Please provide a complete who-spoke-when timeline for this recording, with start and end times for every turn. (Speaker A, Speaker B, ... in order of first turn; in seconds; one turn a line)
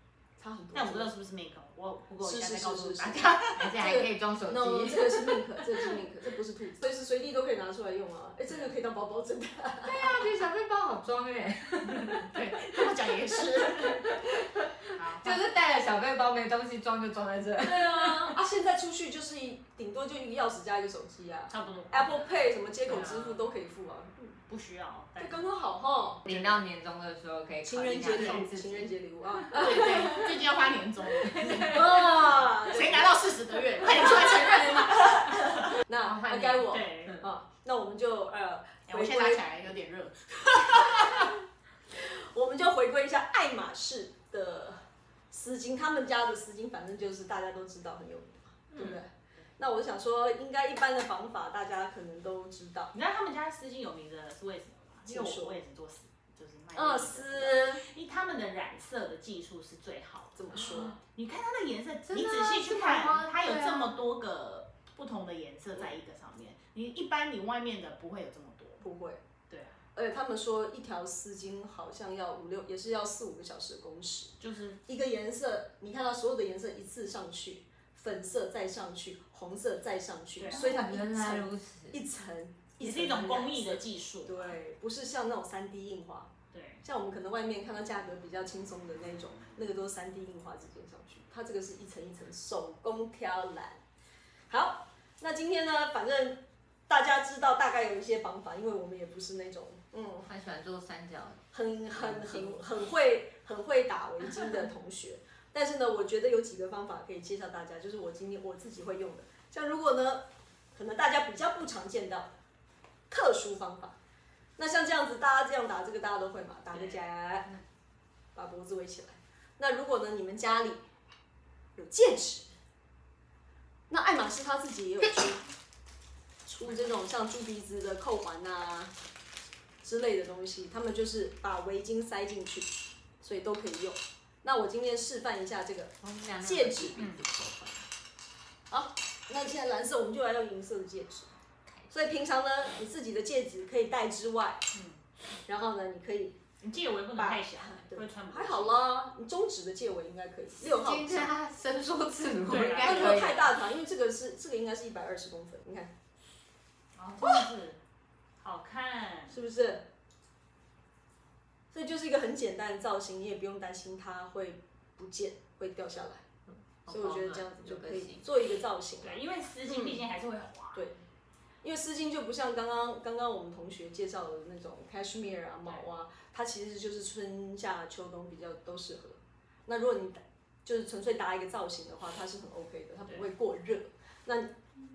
Speaker A: 0.4-1.1
Speaker B: 0.7-3.7
Speaker A: 2.2-10.3
Speaker C: 3.5-6.0
Speaker C: 9.8-12.8
Speaker B: 12.1-14.2
Speaker C: 13.9-18.4
Speaker B: 14.9-15.4
Speaker A: 17.6-24.4
Speaker B: 21.5-22.3
Speaker C: 22.9-23.5
Speaker B: 24.5-25.5
Speaker A: 25.2-26.3
Speaker C: 26.2-28.9
Speaker A: 27.6-30.4
Speaker B: 28.1-28.5
Speaker B: 29.5-35.8
Speaker C: 31.3-32.0
Speaker A: 31.4-33.2
Speaker A: 33.8-39.5
Speaker C: 36.0-36.8
Speaker B: 36.7-37.2
Speaker B: 38.9-41.3
Speaker A: 40.7-41.3
Speaker A: 41.9-52.9
Speaker B: 48.7-49.0
Speaker B: 52.9-68.8
Speaker A: 55.1-55.6
Speaker A: 56.7-57.8
Speaker A: 60.4-61.0
Speaker C: 62.1-64.0
Speaker A: 68.8-69.2
Speaker B: 69.5-69.8
Speaker A: 70.0-86.3
Speaker B: 74.4-74.8
Speaker B: 80.4-80.8
Speaker C: 80.5-82.0
Speaker B: 82.8-84.5
Speaker B: 86.5-86.8
Speaker A: 86.8-93.8
Speaker A: 94.5-100.3
Speaker C: 100.3-102.7
Speaker A: 101.5-112.3
Speaker A: 113.1-114.0
Speaker A: 114.6-117.5
Speaker B: 116.7-117.6
Speaker A: 118.3-120.8
Speaker A: 121.8-122.5
Speaker A: 123.9-125.4
Speaker A: 126.5-128.9
Speaker A: 129.8-137.9
Speaker C: 136.0-137.1
Speaker B: 137.0-137.2
Speaker A: 138.7-141.3
Speaker A: 141.9-144.6
Speaker B: 144.7-145.0
Speaker A: 145.4-146.4
Speaker B: 146.6-148.8
Speaker A: 147.2-151.3
Speaker C: 150.6-153.5
Speaker B: 152.4-153.4
Speaker A: 152.8-155.9
Speaker B: 157.0-157.8
Speaker B: 158.4-159.4
Speaker A: 159.3-159.9
Speaker A: 161.7-166.2
Speaker C: 166.5-168.2
Speaker A: 166.9-170.1
Speaker B: 169.0-170.9
Speaker A: 171.6-184.5